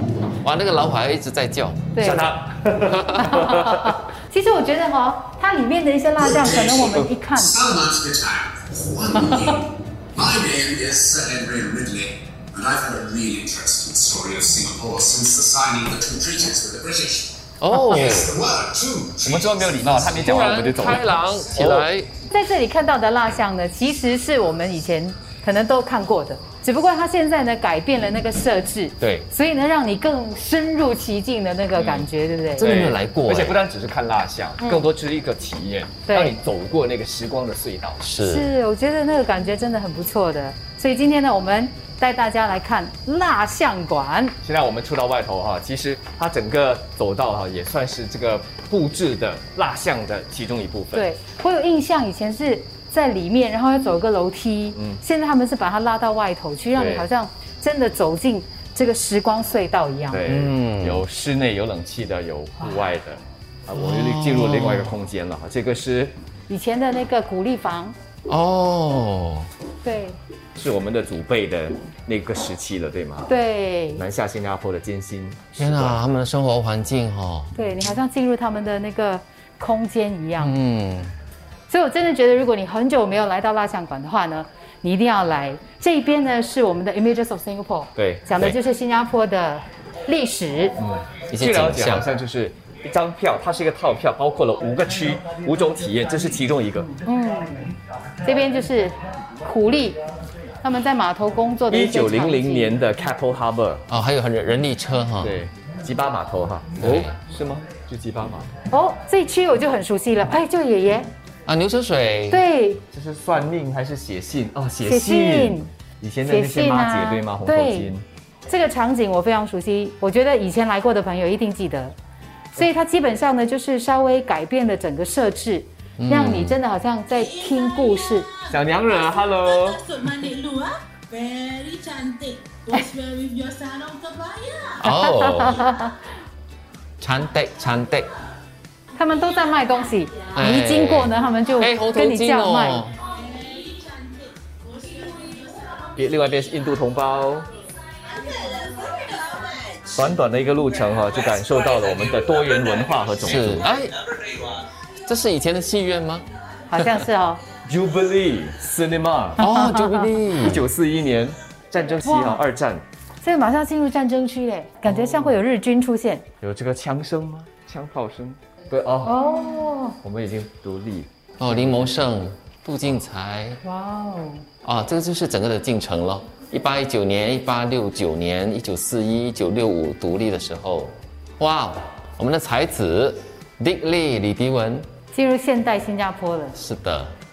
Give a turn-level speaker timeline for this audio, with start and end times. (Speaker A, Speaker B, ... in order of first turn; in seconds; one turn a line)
Speaker A: 0.4-1.9
Speaker B: 1.9-2.3
Speaker C: 2.0-4.0
Speaker A: 2.9-3.3
Speaker B: 3.1-7.7
Speaker D: 7.5-17.3
Speaker B: 9.3-9.5
Speaker A: 17.6-18.4
Speaker D: 18.0-20.2
Speaker C: 19.2-21.9
Speaker A: 20.2-22.1
Speaker B: 22.3-32.8
Speaker A: 29.0-29.3
Speaker C: 31.8-38.0
Speaker A: 32.5-33.6
Speaker B: 34.6-34.9
Speaker B: 36.1-36.4
Speaker A: 38.0-38.5
Speaker B: 38.2-44.4
Speaker C: 44.4-51.1
Speaker B: 50.9-60.2
Speaker C: 54.7-55.0
Speaker C: 56.7-57.1
Speaker C: 60.1-66.1
Speaker A: 60.2-61.0
Speaker A: 63.8-64.9
Speaker B: 66.5-67.9
Speaker A: 68.3-69.5
Speaker B: 69.8-70.2
Speaker C: 70.5-73.3
Speaker B: 73.3-74.0
Speaker C: 74.0-76.0
Speaker A: 75.6-77.5
Speaker B: 77.5-80.5
Speaker A: 80.4-81.1
Speaker B: 81.7-90.8
Speaker C: 88.0-88.5
Speaker C: 90.8-96.9
Speaker A: 91.3-92.0
Speaker B: 97.0-97.7
Speaker B: 98.2-100.0
Speaker B: 100.6-102.8
Speaker C: 101.7-103.8
Speaker A: 103.9-105.4
Speaker C: 105.2-108.5
Speaker A: 106.8-107.2
Speaker B: 108.7-111.1
Speaker A: 111.5-112.4
Speaker B: 112.3-112.8
Speaker C: 112.9-118.0
Speaker B: 114.8-115.7
Speaker B: 116.2-117.9
Speaker B: 118.5-122.0
Speaker B: 122.5-128.3
Speaker A: 126.0-126.6
Speaker C: 128.5-130.3
Speaker E: 130.2-134.7
Speaker A: 134.8-135.7
Speaker B: 134.9-136.0
Speaker A: 137.0-138.1
Speaker B: 138.9-142.8
Speaker A: 140.3-143.0
Speaker E: 143.2-145.8
Speaker C: 145.9-147.5
Speaker E: 148.1-149.7
Speaker C: 149.8-153.7
Speaker A: 153.2-153.9
Speaker A: 155.1-156.2
Speaker B: 156.7-157.4
Speaker C: 157.7-159.4
Speaker A: 159.4-160.6
Speaker B: 159.4-160.1
Speaker C: 160.4-162.8
Speaker B: 162.0-162.4
Speaker B: 163.2-166.2
Speaker C: 165.1-165.3
Speaker C: 166.4-169.2
Speaker B: 169.0-170.0
Speaker C: 170.0-171.9
Speaker A: 171.4-173.6
Speaker B: 173.6-174.4
Speaker A: 174.6-184.9
Speaker B: 185.1-186.6
Speaker A: 186.5-187.1